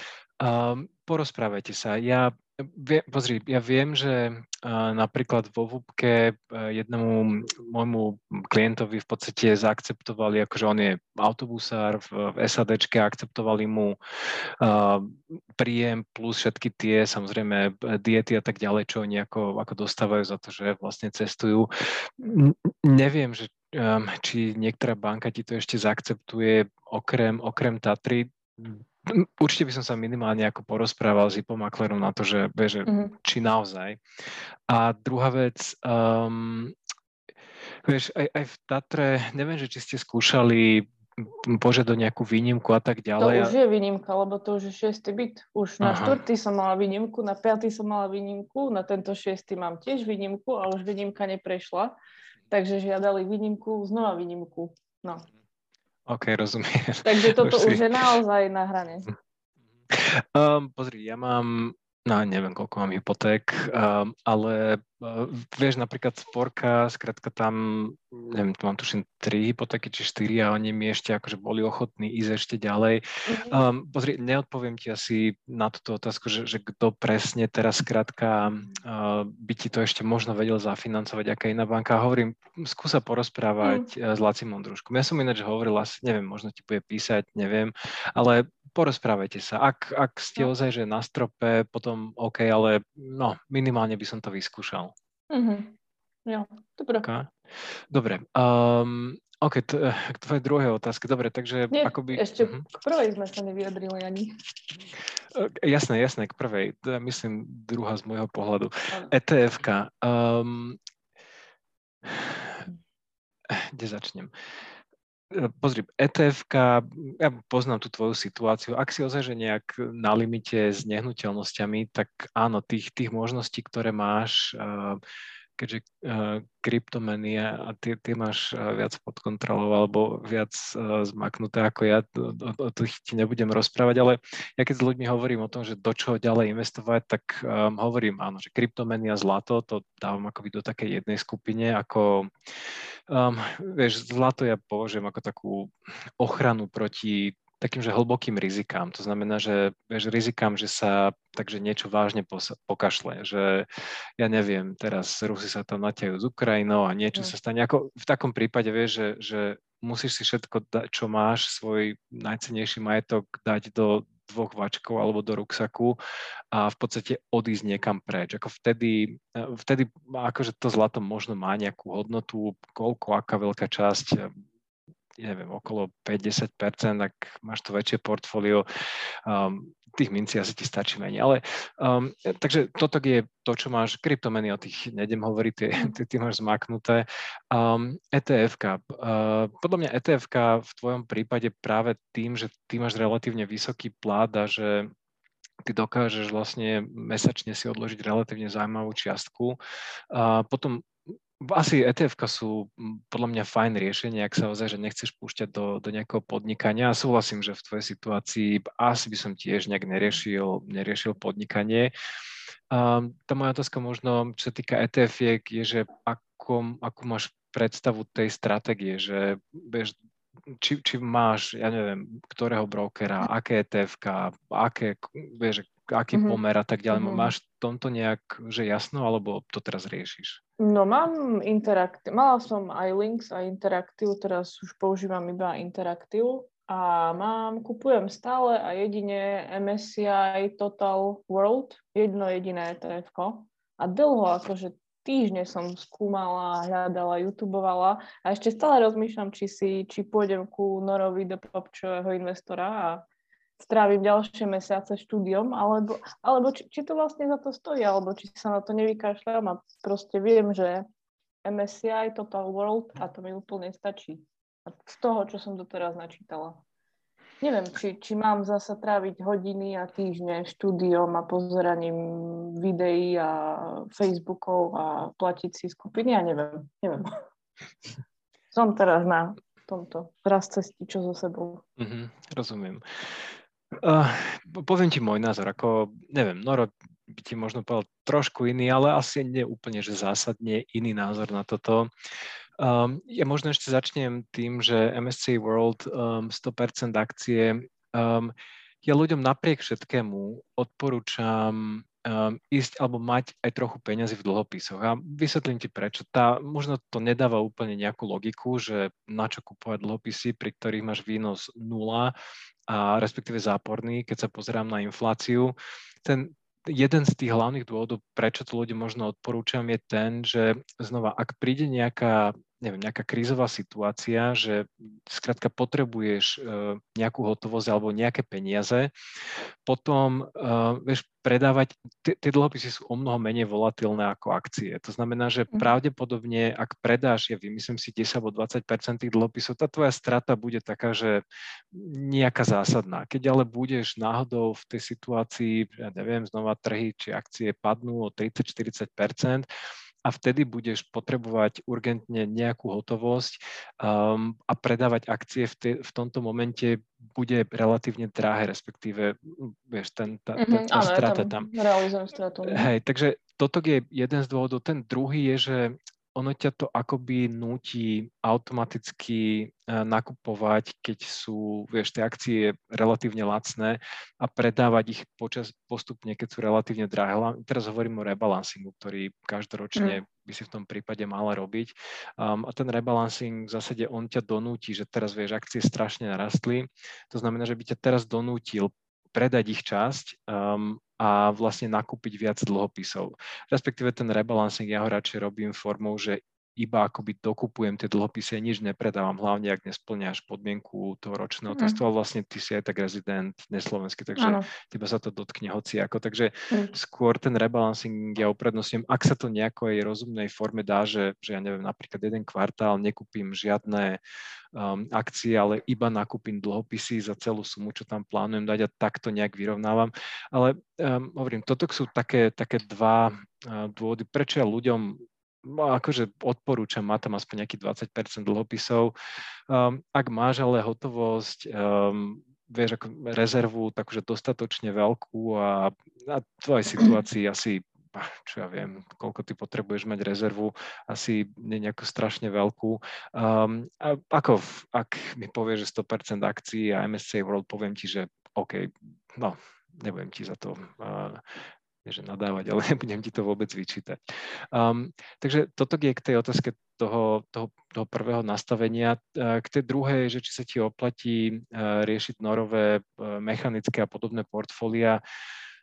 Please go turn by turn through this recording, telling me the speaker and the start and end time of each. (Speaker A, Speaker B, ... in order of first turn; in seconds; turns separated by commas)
Speaker A: 0.4-14.0, Speaker A: 14.6-34.0, Speaker B: 32.9-33.1, Speaker A: 34.7-36.7, Speaker A: 37.8-43.5, Speaker B: 43.2-51.9, Speaker A: 45.8-46.2, Speaker B: 52.5-55.3, Speaker A: 56.0-58.2, Speaker B: 57.0-59.1, Speaker A: 59.9-94.9, Speaker B: 73.3-73.7, Speaker B: 83.6-83.9, Speaker B: 95.3-97.1, Speaker A: 97.0-97.3, Speaker A: 97.9-102.7, Speaker B: 101.7-104.3, Speaker A: 105.3-110.8, Speaker A: 112.0-112.7, Speaker A: 113.5-114.3, Speaker A: 115.3-125.0, Speaker A: 125.6-142.3, Speaker A: 143.1-153.7, Speaker A: 154.2-166.0, Speaker A: 166.5-174.3, Speaker A: 175.2-178.6, Speaker A: 179.2-194.9, Speaker A: 195.6-199.6, Speaker A: 200.1-211.9, Speaker A: 212.7-219.9, Speaker A: 220.5-230.4, Speaker B: 226.1-226.4, Speaker B: 226.9-227.3, Speaker B: 230.6-253.0, Speaker B: 253.6-260.8, Speaker B: 261.4-266.6, Speaker B: 267.4-277.2, Speaker B: 278.5-281.6, Speaker A: 281.8-282.8, Speaker A: 283.8-291.9, Speaker A: 292.6-312.1, Speaker A: 312.7-328.9, Speaker A: 329.6-341.2, Speaker A: 341.7-349.5, Speaker A: 350.0-361.5, Speaker B: 360.4-362.7, Speaker A: 362.4-414.0, Speaker B: 401.5-401.8, Speaker B: 404.2-404.5, Speaker A: 414.5-428.9, Speaker A: 429.5-451.2, Speaker A: 451.8-454.0, Speaker A: 454.5-465.0